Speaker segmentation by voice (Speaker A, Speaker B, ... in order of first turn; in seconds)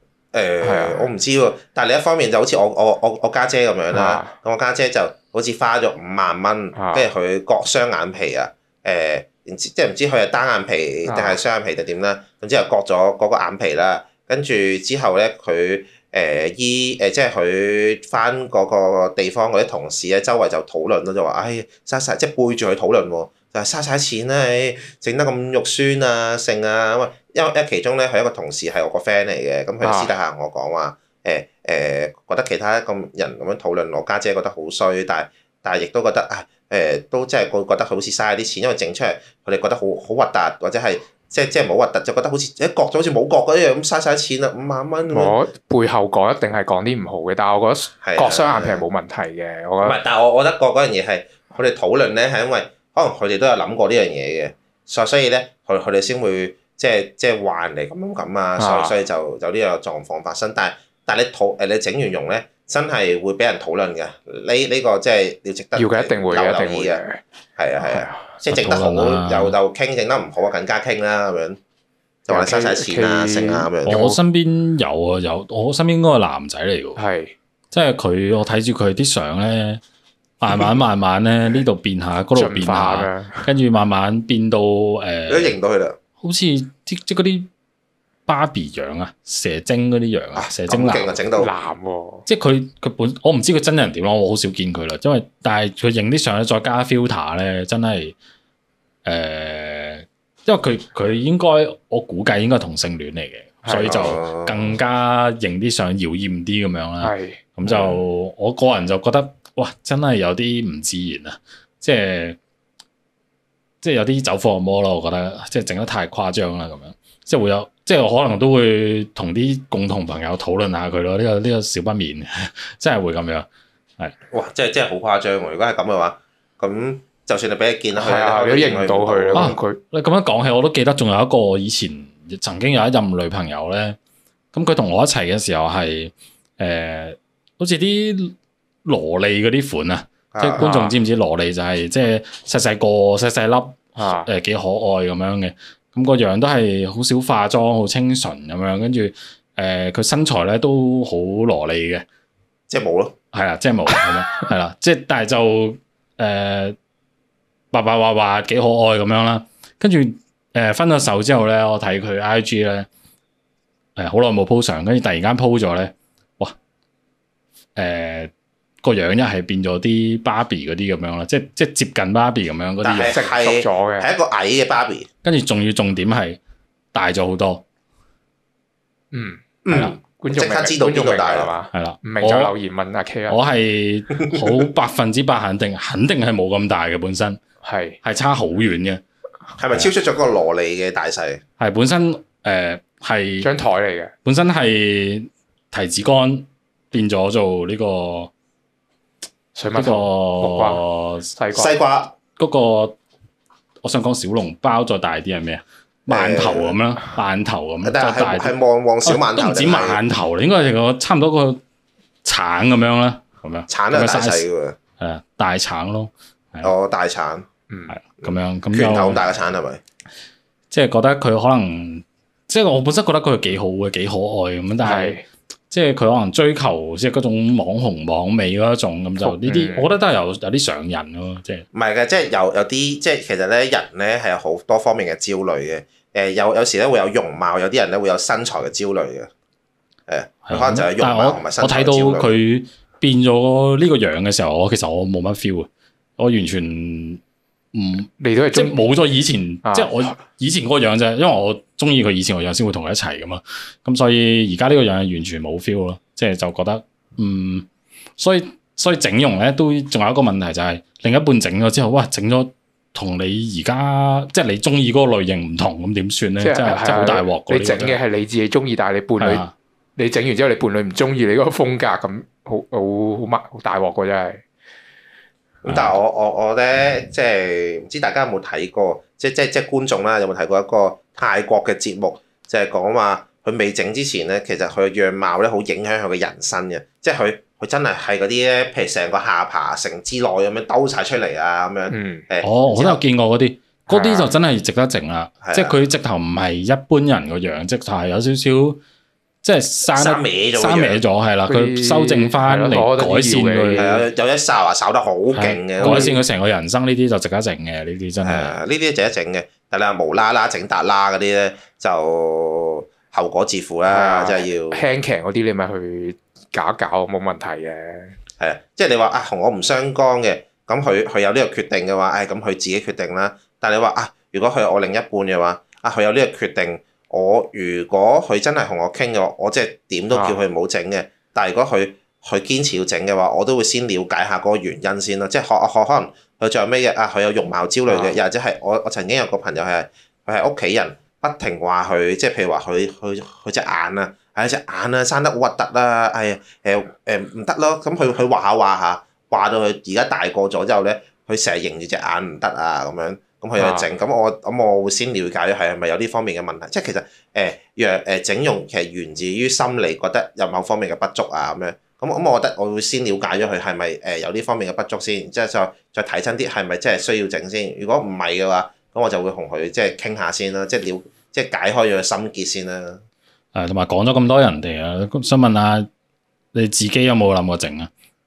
Speaker A: 0.3-45.4, 48.0-48.8, 49.8-67.0, 67.6-71.6, 72.2-74.0, 85.3-86.0, 90.3-91.5, 103.8-104.8, 107.6-108.0, 124.3-129.6, 140.3-140.7, 152.7-153.1, 172.8-175.1, 179.6-181.5, 189.6-191.4, 201.5-202.1, 206.1-206.8, 207.8-210.0, 213.7-214.8, 216.6-217.4, 218.2-219.8, 231.7-239.3, 240.1-242.3, 275.6-293.0, 295.4-295.8, 299.9-301.0, 303.8-306.1, 308.2-314.8, 318.4-373.0
Speaker B: 0.6-1.1, 3.9-4.3, 6.7-7.1, 11.1-11.4, 29.8-30.1, 45.1-50.0, 58.6-58.9, 65.8-67.2, 67.8-68.2, 72.3-74.2, 77.0-77.3, 82.3-83.5, 91.3-92.3, 103.6-104.2, 107.0-107.4, 127.9-129.8, 140.6-140.9, 143.9-144.3, 173.0-174.1, 179.1-183.4, 187.6-188.0, 193.4-194.1, 199.5-201.8, 217.7-217.9, 224.8-225.2, 229.2-230.0, 248.2-248.9, 249.6-250.1, 266.4-269.4, 270.0-274.4, 291.9-292.2, 293.9-294.4, 301.5-304.0, 305.8-306.2, 313.9-318.1, 330.1-330.4, 337.9-338.2, 353.6-353.9
Speaker C: 68.5-69.6, 73.8-77.0, 77.7-79.8, 80.4-85.6, 86.2-87.5, 88.3-91.2, 92.3-98.2, 99.0-112.4, 113.8-123.5, 129.3-134.0, 134.5-138.3, 138.8-152.0, 153.3-156.8, 157.7-162.9, 163.9-166.5, 167.8-168.3, 168.8-173.2, 175.2-176.4, 176.9-177.6, 179.7-180.0, 181.7-182.5, 183.3-187.4, 188.0-189.0, 191.6-193.5, 194.2-198.3, 199.7-201.3, 202.4-203.0, 203.8-211.6, 212.2-214.4, 215.0-216.7, 217.9-219.3, 220.7-231.7, 240.4-247.2, 247.7-257.7, 258.2-268.0, 269.2-269.5, 275.7-276.0, 292.4-298.8, 299.4-304.0, 305.3-308.6, 373.5-375.9, 376.5-377.9